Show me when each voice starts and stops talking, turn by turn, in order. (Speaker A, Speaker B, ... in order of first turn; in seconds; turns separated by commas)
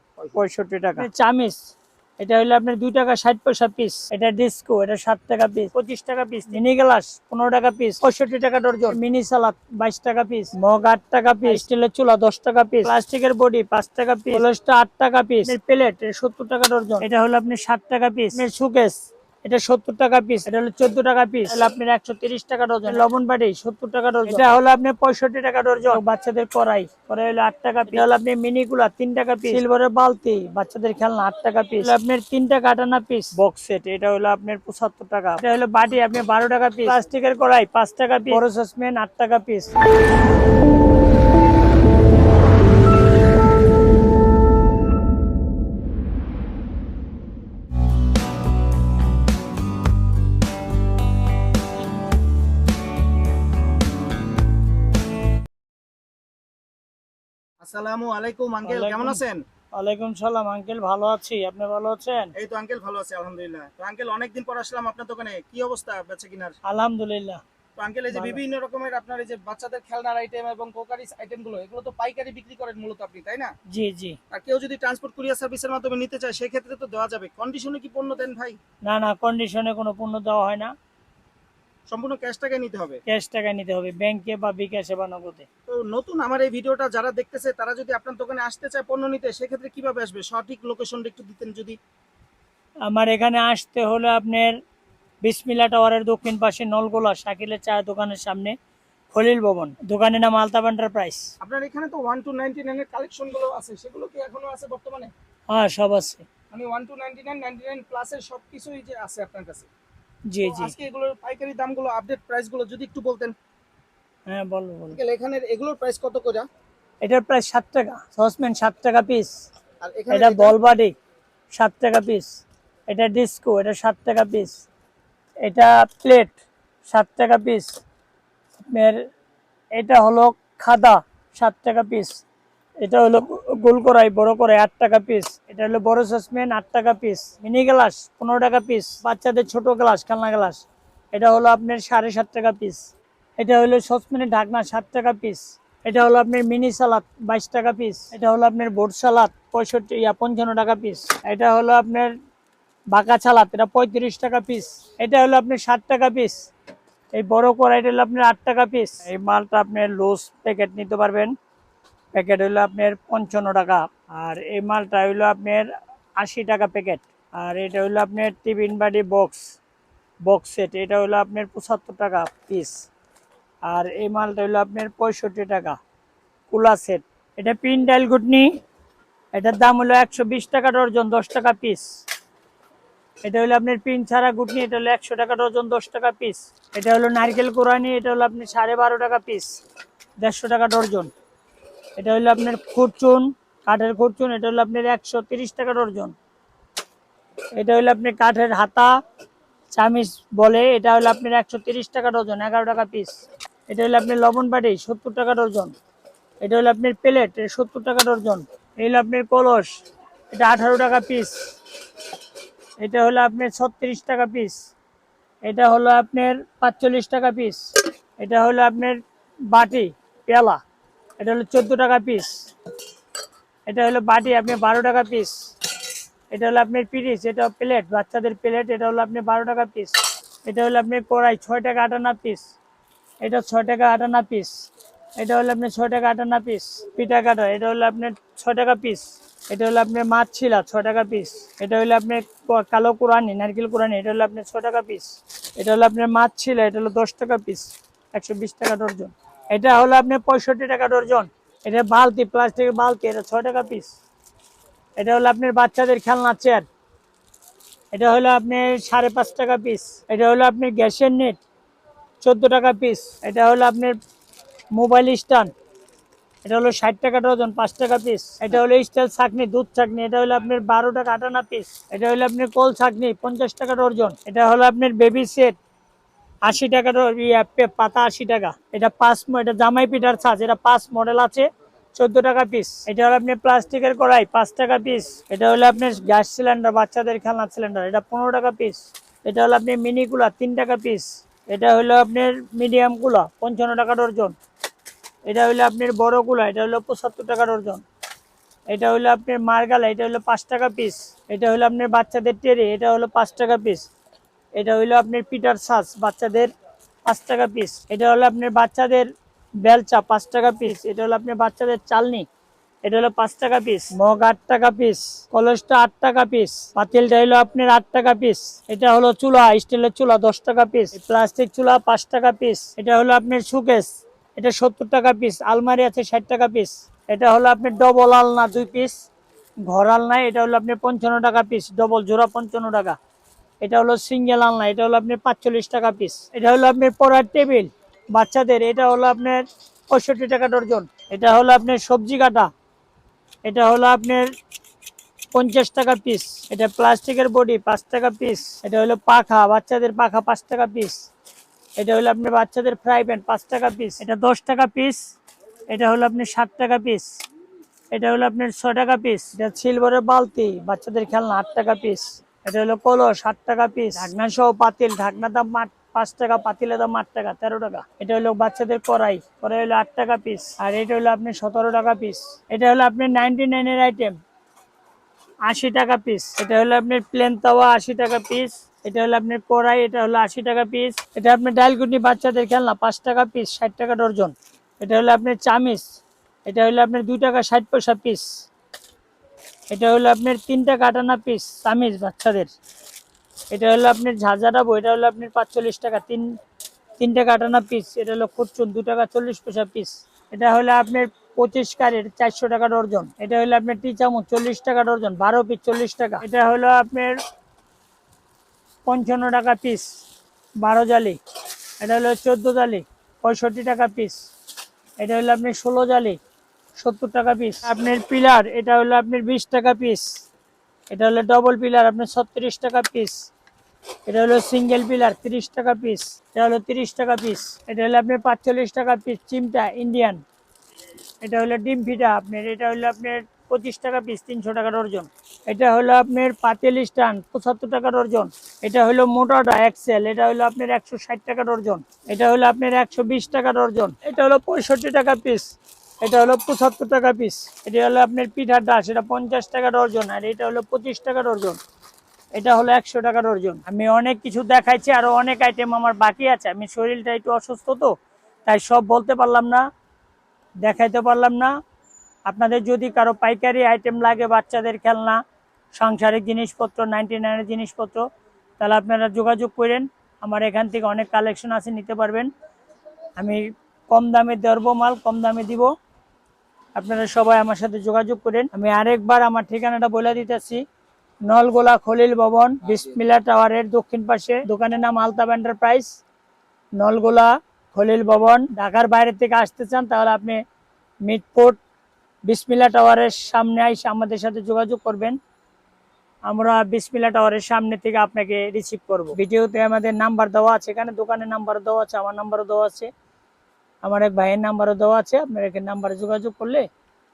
Speaker A: 0.3-1.6, Speaker A: 2.2-39.7, Speaker B: 57.6-59.4, Speaker A: 58.6-59.2, Speaker A: 59.7-62.3, Speaker B: 62.3-66.5, Speaker A: 66.6-67.4, Speaker B: 67.8-73.5, Speaker A: 68.1-68.4, Speaker A: 73.7-74.2, Speaker B: 74.3-78.6, Speaker A: 78.8-80.7, Speaker B: 81.9-83.0, Speaker A: 83.0-85.5, Speaker B: 85.7-91.8, Speaker A: 92.8-94.6, Speaker A: 95.2-98.5, Speaker A: 99.1-101.3, Speaker B: 101.4-105.1, Speaker A: 105.5-106.2, Speaker B: 106.5-109.7, Speaker A: 110.3-110.7, Speaker B: 110.4-113.3, Speaker A: 114.2-115.0, Speaker B: 114.9-116.5, Speaker A: 117.0-119.4, Speaker B: 119.8-120.6, Speaker A: 120.1-120.9, Speaker A: 121.5-122.3, Speaker A: 122.9-124.5, Speaker A: 125.4-126.3, Speaker A: 126.9-127.7, Speaker A: 128.6-129.1, Speaker A: 129.7-132.2, Speaker A: 132.8-142.8, Speaker A: 143.4-152.1, Speaker A: 152.9-156.5, Speaker A: 157.1-161.3, Speaker A: 162.1-169.5, Speaker A: 170.2-172.8, Speaker A: 173.6-175.8, Speaker A: 176.5-178.6, Speaker A: 179.3-181.9, Speaker A: 183.2-189.6, Speaker A: 190.2-191.1, Speaker A: 191.9-196.1, Speaker A: 197.5-199.0, Speaker A: 199.7-205.7, Speaker A: 206.4-209.8, Speaker A: 210.3-211.4, Speaker A: 212.8-214.7, Speaker A: 215.4-220.6, Speaker A: 221.2-222.5, Speaker A: 223.7-225.5, Speaker A: 226.3-232.5, Speaker A: 233.2-253.9, Speaker A: 255.0-256.6, Speaker A: 257.9-261.4, Speaker A: 262.2-264.0, Speaker A: 264.7-265.5, Speaker A: 266.4-275.6, Speaker A: 276.4-294.4, Speaker A: 295.2-297.8, Speaker A: 298.7-303.9, Speaker A: 304.5-306.5, Speaker A: 307.0-312.3, Speaker A: 312.8-329.0, Speaker A: 329.6-333.0, Speaker A: 333.6-342.5, Speaker A: 343.4-344.3, Speaker A: 345.3-351.0, Speaker A: 351.8-355.1, Speaker A: 355.7-357.2, Speaker A: 357.9-374.2, Speaker A: 375.4-385.9, Speaker A: 386.4-388.3, Speaker A: 389.7-392.5, Speaker A: 393.5-396.4, Speaker A: 397.0-407.2, Speaker A: 408.8-410.0, Speaker A: 410.6-411.2, Speaker A: 411.8-414.3, Speaker A: 415.0-416.2, Speaker A: 416.8-420.2, Speaker A: 420.9-423.3, Speaker A: 424.0-430.2, Speaker A: 431.2-451.6, Speaker A: 452.3-457.9, Speaker A: 458.4-459.7, Speaker A: 460.6-461.5, Speaker A: 462.2-465.2, Speaker A: 465.7-468.1, Speaker A: 468.6-472.3, Speaker A: 473.1-475.7, Speaker A: 476.7-480.6, Speaker A: 481.2-486.0, Speaker A: 486.8-490.4, Speaker A: 491.0-491.6, Speaker A: 492.3-495.2, Speaker A: 496.3-502.9, Speaker A: 503.8-506.7